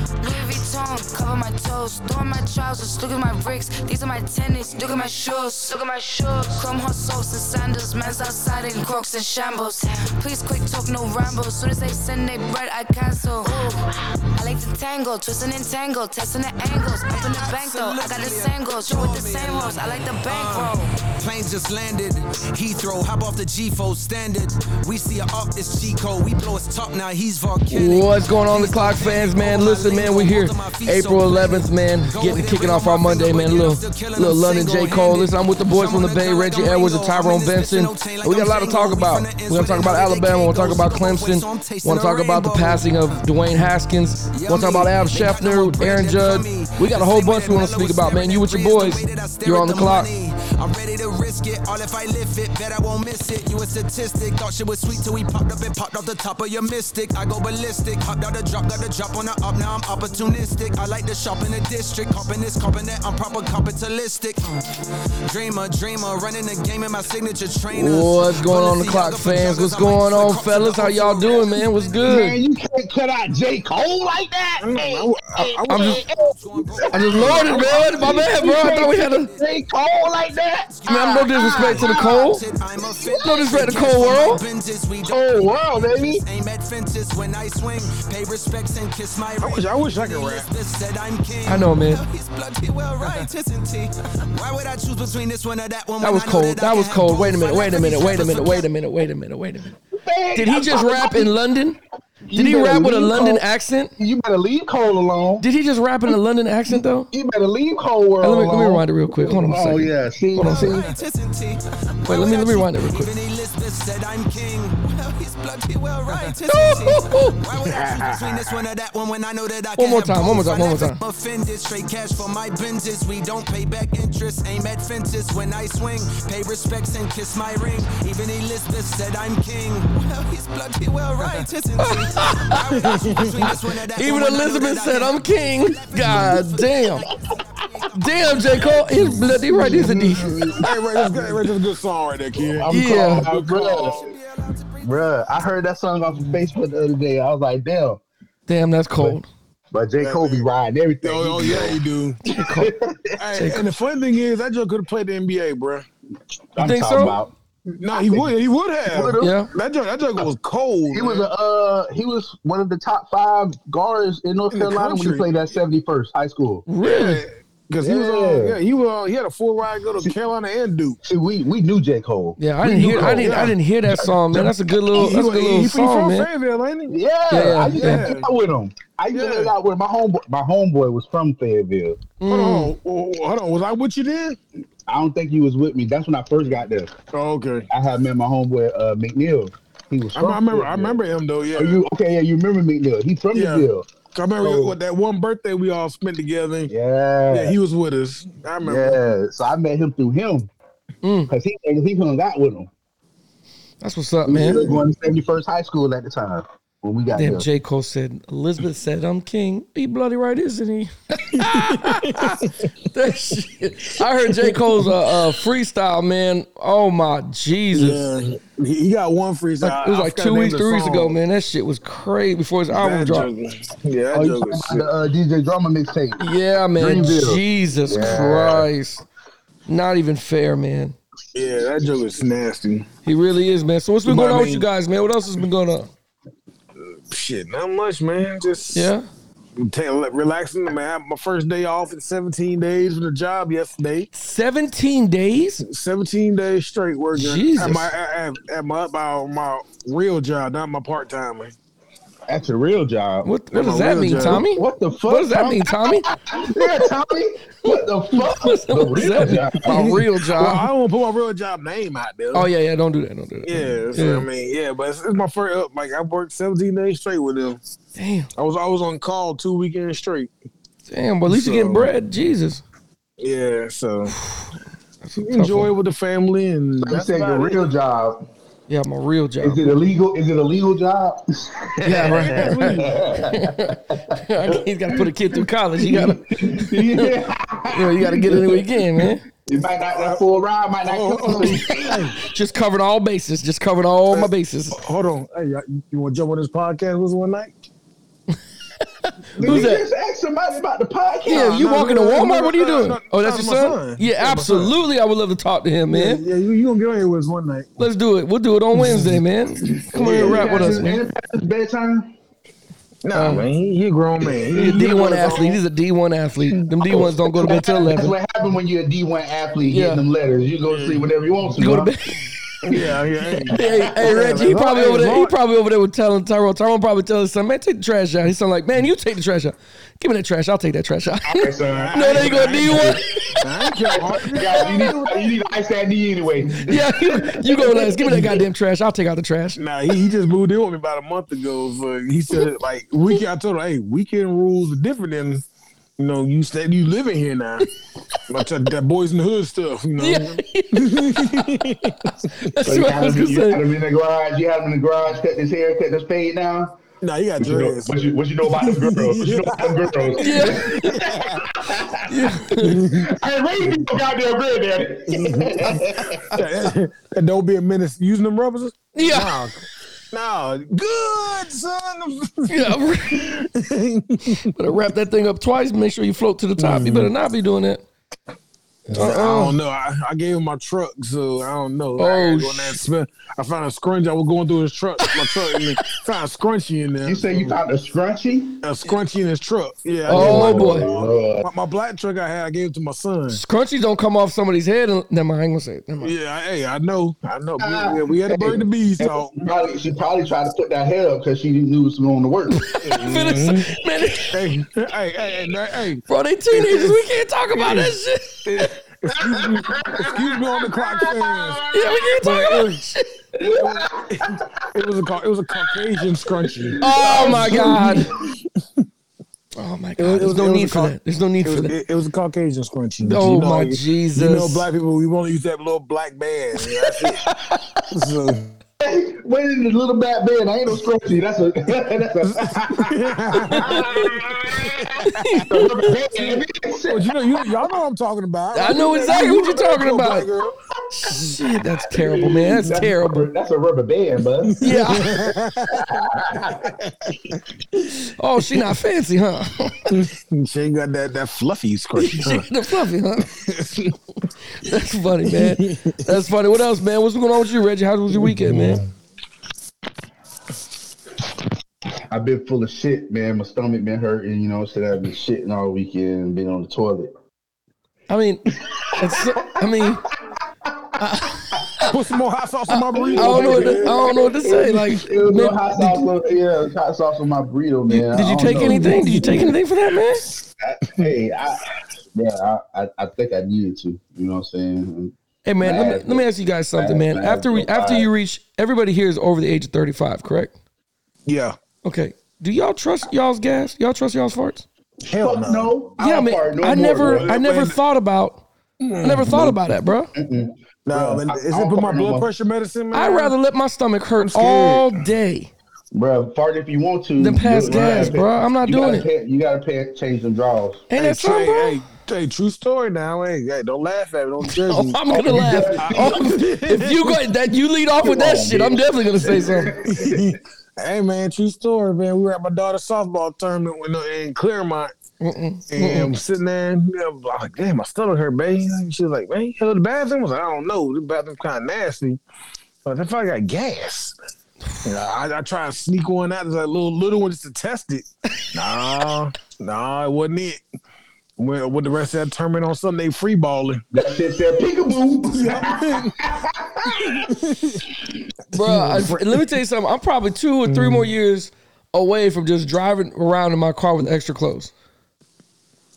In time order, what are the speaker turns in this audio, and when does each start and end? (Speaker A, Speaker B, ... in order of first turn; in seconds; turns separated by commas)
Speaker A: 0.2-20.9, Speaker B: 13.4-13.8, Speaker B: 17.0-43.2, Speaker C: 27.7-50.1, Speaker B: 44.3-64.7, Speaker B: 65.3-72.3, Speaker C: 67.7-72.4, Speaker D: 72.0-83.3, Speaker E: 74.6-76.1, Speaker C: 75.7-76.0, Speaker B: 76.2-79.6, Speaker C: 76.9-79.3, Speaker B: 80.7-98.7, Speaker C: 80.9-82.4, Speaker C: 83.2-84.4, Speaker D: 85.0-86.2, Speaker E: 89.4-90.5, Speaker C: 91.5-92.0, Speaker C: 96.0-99.8, Speaker D: 99.9-101.3, Speaker C: 100.3-101.8, Speaker D: 102.3-103.5, Speaker C: 102.3-103.9, Speaker D: 104.0-105.5, Speaker C: 105.4-107.1, Speaker D: 106.7-111.0, Speaker C: 108.2-110.8, Speaker B: 110.4-140.8, Speaker C: 112.1-113.1, Speaker C: 116.5-117.4, Speaker E: 117.6-118.6, Speaker C: 119.8-121.0, Speaker C: 131.8-132.7, Speaker E: 132.8-133.4, Speaker C: 133.4-137.1, Speaker C: 137.9-140.5, Speaker D: 139.5-140.6, Speaker E: 140.6-144.1, Speaker D: 142.4-144.0, Speaker C: 142.7-143.3, Speaker B: 143.5-145.3, Speaker D: 144.8-148.0, Speaker C: 148.5-149.3, Speaker D: 149.7-151.8, Speaker E: 150.0-150.5, Speaker E: 151.0-152.2, Speaker C: 152.3-152.7, Speaker D: 152.3-153.5, Speaker E: 153.2-155.9, Speaker C: 153.3-153.6, Speaker D: 156.6-157.3, Speaker C: 156.6-157.2, Speaker E: 157.7-161.3, Speaker D: 157.9-159.3, Speaker C: 159.2-159.5, Speaker D: 160.9-166.7, Speaker E: 164.5-165.2, Speaker C: 166.7-167.2, Speaker E: 166.8-171.0, Speaker D: 167.8-168.6, Speaker D: 171.0-172.4, Speaker C: 172.4-176.3, Speaker E: 172.6-178.3, Speaker D: 172.9-173.4, Speaker D: 176.9-182.0, Speaker C: 177.3-178.1, Speaker E: 179.1-179.5, Speaker C: 182.2-182.7, Speaker E: 182.3-184.4, Speaker D: 184.9-186.9, Speaker E: 187.1-187.7, Speaker D: 187.7-191.0, Speaker E: 190.1-191.8, Speaker D: 191.5-193.9, Speaker E: 193.3-196.7, Speaker D: 194.4-194.8, Speaker D: 196.7-197.6, Speaker E: 197.3-199.0, Speaker D: 198.6-200.5, Speaker C: 201.0-201.3, Speaker D: 201.3-202.7, Speaker C: 203.8-204.7, Speaker D: 204.2-207.5, Speaker C: 207.2-218.1, Speaker E: 211.3-212.7, Speaker E: 217.7-221.2, Speaker C: 219.6-223.3, Speaker E: 222.7-224.8, Speaker D: 224.1-226.2, Speaker C: 226.2-229.0, Speaker D: 226.8-228.7, Speaker C: 229.7-231.0, Speaker E: 231.3-232.9, Speaker C: 233.1-235.9, Speaker E: 234.1-234.7, Speaker E: 236.8-238.9, Speaker C: 238.7-239.1, Speaker E: 239.6-244.1, Speaker C: 244.1-245.6, Speaker E: 245.6-251.6, Speaker C: 247.2-247.9, Speaker D: 252.3-253.3, Speaker C: 253.2-256.9, Speaker E: 253.5-254.4, Speaker D: 254.3-260.0, Speaker C: 257.7-260.7, Speaker E: 259.6-262.5, Speaker C: 262.3-264.3, Speaker E: 263.4-267.6, Speaker C: 268.0-268.3, Speaker E: 268.4-270.3, Speaker C: 270.9-272.6, Speaker E: 271.3-271.9, Speaker E: 273.2-274.2, Speaker C: 274.2-275.7, Speaker E: 275.2-277.6, Speaker D: 276.8-278.3, Speaker C: 278.7-279.6, Speaker D: 279.4-285.1, Speaker C: 281.8-287.2, Speaker E: 281.9-283.1, Speaker D: 285.8-292.2, Speaker C: 287.7-289.2, Speaker E: 290.9-292.2, Speaker C: 292.2-294.8, Speaker E: 294.1-297.6, Speaker C: 299.0-299.8, Speaker D: 299.4-301.6, Speaker E: 299.4-299.7, Speaker E: 301.3-304.8, Speaker C: 301.3-306.2, Speaker E: 305.9-307.8, Speaker C: 307.8-311.0, Speaker E: 308.8-309.2, Speaker D: 309.8-312.1, Speaker E: 309.9-310.8, Speaker E: 313.0-315.6, Speaker C: 313.1-313.5, Speaker D: 314.2-314.9, Speaker C: 314.6-318.2, Speaker D: 316.4-321.9, Speaker C: 319.7-320.0, Speaker E: 320.7-321.0, Speaker C: 321.6-322.4, Speaker E: 322.6-325.4, Speaker D: 322.7-324.1, Speaker C: 323.5-333.4, Speaker D: 331.3-333.2, Speaker E: 331.6-335.3, Speaker D: 333.9-338.4, Speaker C: 334.1-334.8, Speaker C: 336.6-339.6, Speaker E: 339.6-345.4, Speaker E: 346.0-347.7, Speaker E: 348.3-352.1, Speaker C: 350.0-351.6, Speaker C: 352.3-353.6, Speaker D: 352.6-356.8, Speaker E: 357.0-361.5, Speaker D: 357.4-366.3, Speaker C: 360.1-361.0, Speaker C: 362.1-362.8, Speaker E: 362.6-363.1, Speaker E: 365.1-374.5, Speaker C: 368.9-369.5, Speaker C: 372.5-373.4, Speaker C: 374.5-377.8, Speaker E: 376.6-377.1, Speaker E: 378.9-387.5, Speaker C: 378.9-379.6, Speaker C: 382.0-382.8, Speaker C: 385.1-385.8, Speaker D: 387.0-388.6, Speaker E: 388.6-393.4, Speaker D: 390.1-391.5, Speaker C: 390.1-390.9, Speaker C: 393.3-396.1, Speaker E: 396.0-399.4, Speaker D: 397.6-402.7, Speaker C: 402.5-404.4, Speaker E: 402.8-403.7, Speaker E: 404.3-407.0, Speaker C: 406.1-408.8, Speaker E: 407.5-411.6, Speaker D: 409.2-412.1, Speaker C: 411.7-413.1, Speaker E: 412.2-412.8, Speaker D: 413.4-414.7, Speaker E: 413.5-418.3, Speaker D: 415.5-418.3, Speaker C: 416.8-418.1, Speaker C: 419.6-421.8, Speaker E: 420.0-428.6, Speaker C: 423.0-424.7, Speaker D: 428.8-437.5, Speaker E: 432.2-435.3, Speaker C: 433.4-434.1, Speaker C: 435.0-436.0, Speaker E: 436.1-440.5, Speaker C: 438.5-440.3, Speaker C: 440.9-443.3, Speaker D: 441.9-444.6, Speaker E: 444.4-447.8, Speaker C: 444.6-445.3, Speaker D: 445.7-446.8, Speaker C: 448.2-450.0, Speaker E: 449.9-452.5, Speaker C: 452.0-453.5, Speaker E: 453.3-453.9, Speaker C: 454.5-458.8, Speaker E: 455.2-456.1, Speaker E: 458.1-458.9, Speaker D: 462.1-467.1, Speaker C: 468.1-470.1, Speaker C: 471.0-471.9, Speaker D: 471.6-471.8, Speaker E: 471.8-474.1, Speaker C: 472.7-476.0, Speaker D: 472.9-479.6, Speaker C: 477.9-480.3, Speaker E: 478.5-479.5, Speaker D: 480.6-488.1, Speaker C: 485.4-490.5, Speaker E: 491.3-491.6, Speaker C: 491.8-494.7, Speaker E: 495.1-495.8, Speaker D: 495.1-497.3, Speaker C: 496.0-498.5, Speaker E: 497.0-497.8, Speaker E: 498.8-499.6, Speaker C: 499.0-500.1, Speaker D: 500.1-502.3, Speaker E: 500.9-503.3, Speaker C: 502.9-505.5, Speaker E: 504.2-505.0, Speaker D: 505.9-510.9, Speaker C: 507.2-509.1, Speaker E: 507.6-508.2, Speaker C: 510.9-511.8, Speaker E: 510.9-517.2, Speaker C: 514.4-519.7, Speaker D: 515.1-516.4, Speaker D: 518.0-520.3, Speaker E: 519.8-524.9, Speaker C: 525.2-526.1, Speaker E: 525.7-532.2, Speaker E: 532.9-534.1, Speaker E: 534.8-540.6, Speaker E: 541.4-543.8, Speaker D: 543.9-547.4, Speaker E: 545.3-546.3, Speaker E: 546.8-547.9, Speaker C: 548.5-554.7, Speaker E: 548.5-549.4, Speaker E: 550.7-551.1